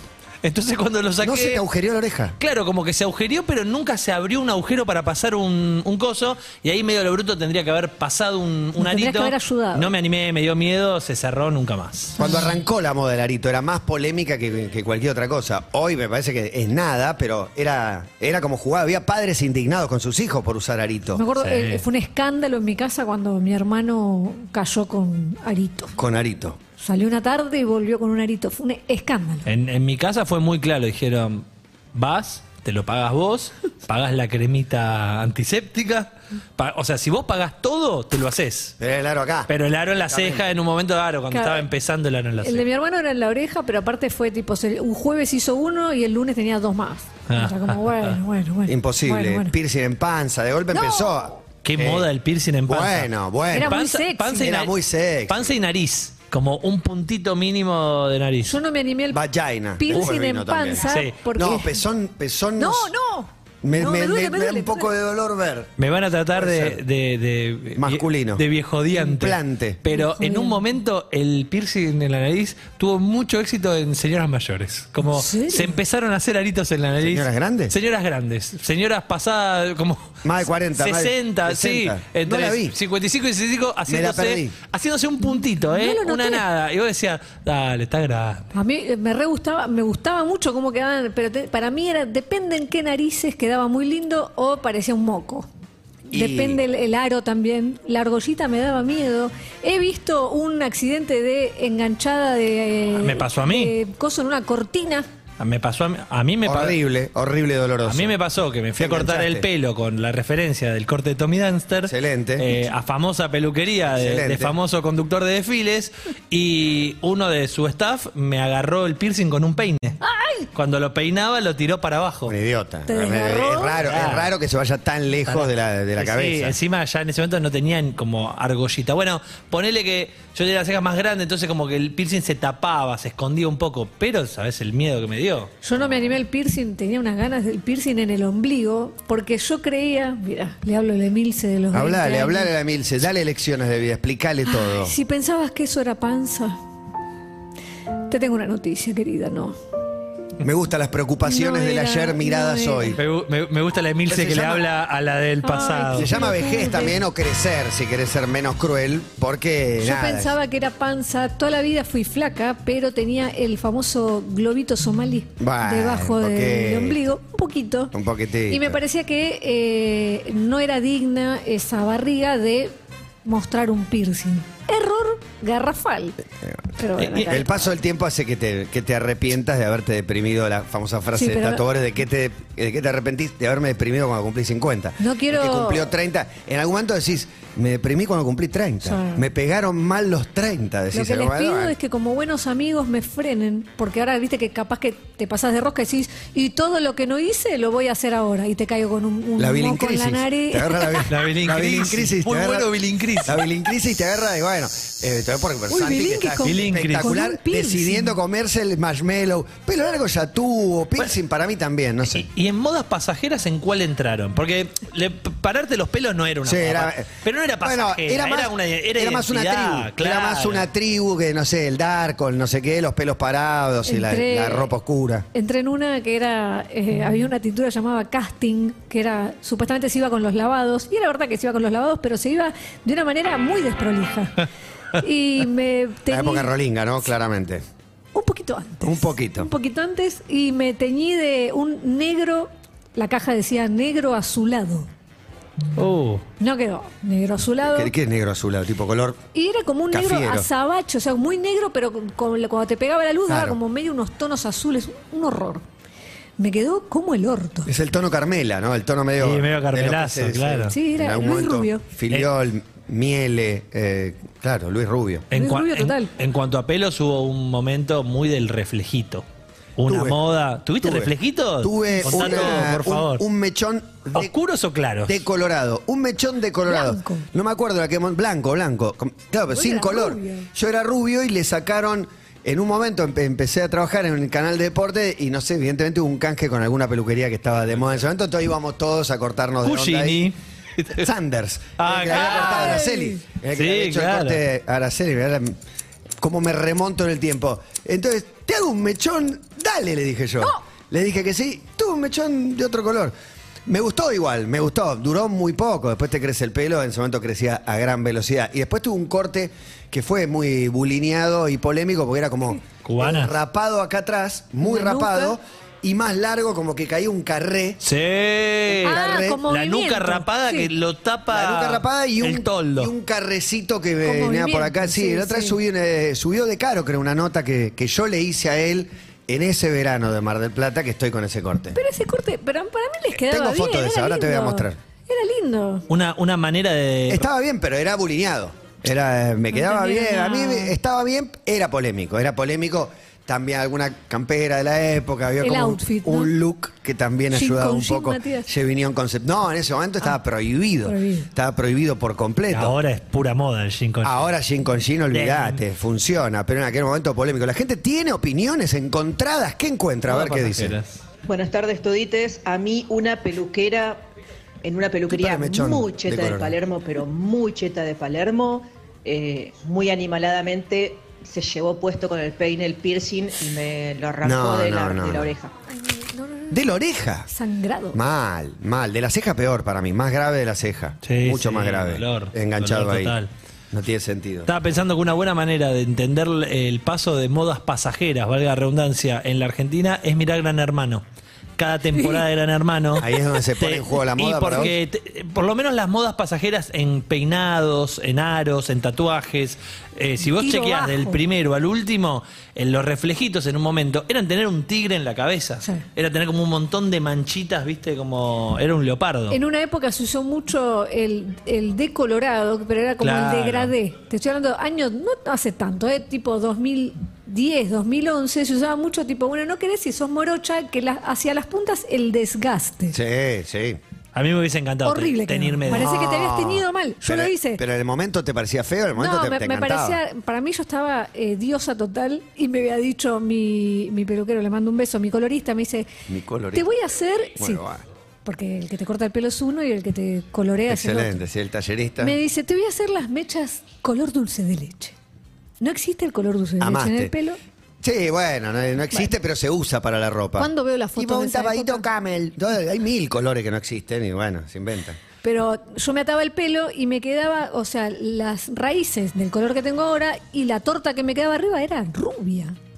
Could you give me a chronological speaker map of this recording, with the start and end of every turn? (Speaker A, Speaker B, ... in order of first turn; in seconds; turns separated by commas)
Speaker A: 0.4-1.6, Speaker B: 1.2-2.4, Speaker A: 2.4-12.2, Speaker C: 8.8-9.9, Speaker C: 12.2-12.5, Speaker B: 12.2-21.2, Speaker C: 21.1-25.9, Speaker A: 21.4-21.8, Speaker B: 26.0-26.6, Speaker C: 26.8-29.5, Speaker A: 29.4-38.7, Speaker B: 38.8-39.5, Speaker A: 39.5-42.6, Speaker B: 40.1-40.5, Speaker C: 41.3-41.7, Speaker C: 42.4-49.5, Speaker A: 47.3-48.1, Speaker B: 48.7-52.1, Speaker C: 50.7-51.4, Speaker A: 51.6-54.7, Speaker B: 52.7-53.8, Speaker C: 53.5-54.5, Speaker B: 54.4-55.5, Speaker A: 55.3-58.6, Speaker C: 58.5-59.2, Speaker B: 59.1-62.9, Speaker C: 59.8-61.8, Speaker A: 60.9-61.1, Speaker C: 62.6-64.9, Speaker B: 63.6-65.7, Speaker A: 65.8-80.2, Speaker B: 66.3-66.8, Speaker B: 67.8-68.4, Speaker B: 69.0-69.8, Speaker C: 69.9-70.6, Speaker C: 75.0-75.8, Speaker B: 77.0-77.7, Speaker B: 80.2-82.7, Speaker A: 80.7-88.5, Speaker B: 83.9-84.5, Speaker C: 85.2-86.4, Speaker C: 88.5-95.5, Speaker B: 96.1-96.6, Speaker C: 96.1-105.1, Speaker A: 103.0-103.7, Speaker A: 105.4-106.8, Speaker B: 106.4-108.1, Speaker A: 107.9-120.0, Speaker B: 108.8-109.5, Speaker B: 111.8-112.5, Speaker B: 113.9-114.5, Speaker C: 120.0-120.5, Speaker A: 120.5-122.3, Speaker B: 122.3-126.5, Speaker C: 122.9-123.8, Speaker A: 123.8-124.3, Speaker A: 125.3-135.5, Speaker C: 135.6-142.5, Speaker B: 141.7-144.9, Speaker C: 144.4-146.6, Speaker C: 148.1-149.6, Speaker B: 150.4-153.0, Speaker C: 151.2-153.0, Speaker A: 153.0-156.1, Speaker B: 154.1-154.6, Speaker C: 155.4-157.0, Speaker B: 155.9-160.3, Speaker C: 159.8-167.9, Speaker B: 165.4-167.1, Speaker B: 167.9-168.8, Speaker C: 168.5-172.7, Speaker C: 173.2-176.2, Speaker C: 176.8-177.7, Speaker A: 177.0-177.3, Speaker B: 177.2-191.7, Speaker C: 181.1-181.6, Speaker C: 185.0-185.9, Speaker C: 188.8-189.2, Speaker C: 190.9-201.1, Speaker B: 199.4-202.7, Speaker A: 201.1-203.4, Speaker B: 203.2-212.3, Speaker C: 205.7-208.2, Speaker A: 206.4-207.2, Speaker A: 212.1-220.7, Speaker B: 216.4-217.1, Speaker B: 217.6-225.2, Speaker C: 223.8-224.7, Speaker C: 225.3-236.5, Speaker B: 236.1-237.6, Speaker C: 238.1-244.9, Speaker B: 238.8-239.5, Speaker A: 245.8-246.2, Speaker C: 246.4-247.9, Speaker B: 247.7-249.2, Speaker C: 249.3-255.6, Speaker B: 249.9-250.5, Speaker B: 253.3-253.6, Speaker C: 256.4-257.7, Speaker B: 257.6-265.3, Speaker A: 259.2-260.7, Speaker C: 260.7-261.8, Speaker A: 265.3-269.2, Speaker C: 265.3-266.1, Speaker A: 269.8-273.2, Speaker B: 269.9-270.2, Speaker B: 270.8-274.3, Speaker C: 271.9-272.6, Speaker A: 274.1-275.2, Speaker B: 275.1-290.3, Speaker C: 276.6-277.2, Speaker C: 279.5-280.5, Speaker A: 289.6-291.1, Speaker B: 290.9-295.6, Speaker A: 291.8-292.9, Speaker C: 292.2-293.2, Speaker A: 293.5-294.4, Speaker B: 296.2-303.1, Speaker B: 303.6-317.8, Speaker A: 312.8-313.3, Speaker C: 314.6-315.4, Speaker A: 317.8-322.9, Speaker B: 318.7-319.4, Speaker C: 318.8-320.7, Speaker B: 321.3-331.8, Speaker C: 324.0-325.6, Speaker C: 331.7-335.8, Speaker B: 333.1-334.8, Speaker A: 335.9-337.2, Speaker B: 337.1-352.8, Speaker C: 339.5-340.8, Speaker C: 345.4-346.3, Speaker C: 347.3-348.5, Speaker C: 350.8-351.3, Speaker A: 352.5-354.2, Speaker B: 354.0-360.8, Speaker A: 355.1-355.6, Speaker A: 360.1-361.0, Speaker D: 361.2-364.0, Speaker D: 364.6-375.5, Speaker B: 365.1-366.6, Speaker B: 374.2-375.3, Speaker C: 375.7-376.7, Speaker B: 376.5-377.3, Speaker C: 377.3-378.0, Speaker B: 377.9-383.1, Speaker A: 381.0-383.3, Speaker B: 383.7-384.5, Speaker A: 384.5-391.0, Speaker A: 391.6-409.4, Speaker C: 391.9-392.2, Speaker B: 393.0-394.7, Speaker C: 400.2-401.2, Speaker C: 409.3-423.0, Speaker A: 413.0-413.7, Speaker B: 422.9-423.8, Speaker A: 424.1-425.9, Speaker C: 424.8-427.6, Speaker B: 425.7-430.0, Speaker C: 429.0-435.9, Speaker B: 436.1-436.7, Speaker C: 436.5-437.6, Speaker B: 437.4-437.8, Speaker C: 438.2-441.2, Speaker B: 440.7-442.1, Speaker C: 442.0-444.9, Speaker C: 445.6-447.4, Speaker B: 446.6-447.1, Speaker B: 447.8-455.0, Speaker C: 450.4-451.9, Speaker C: 455.2-462.6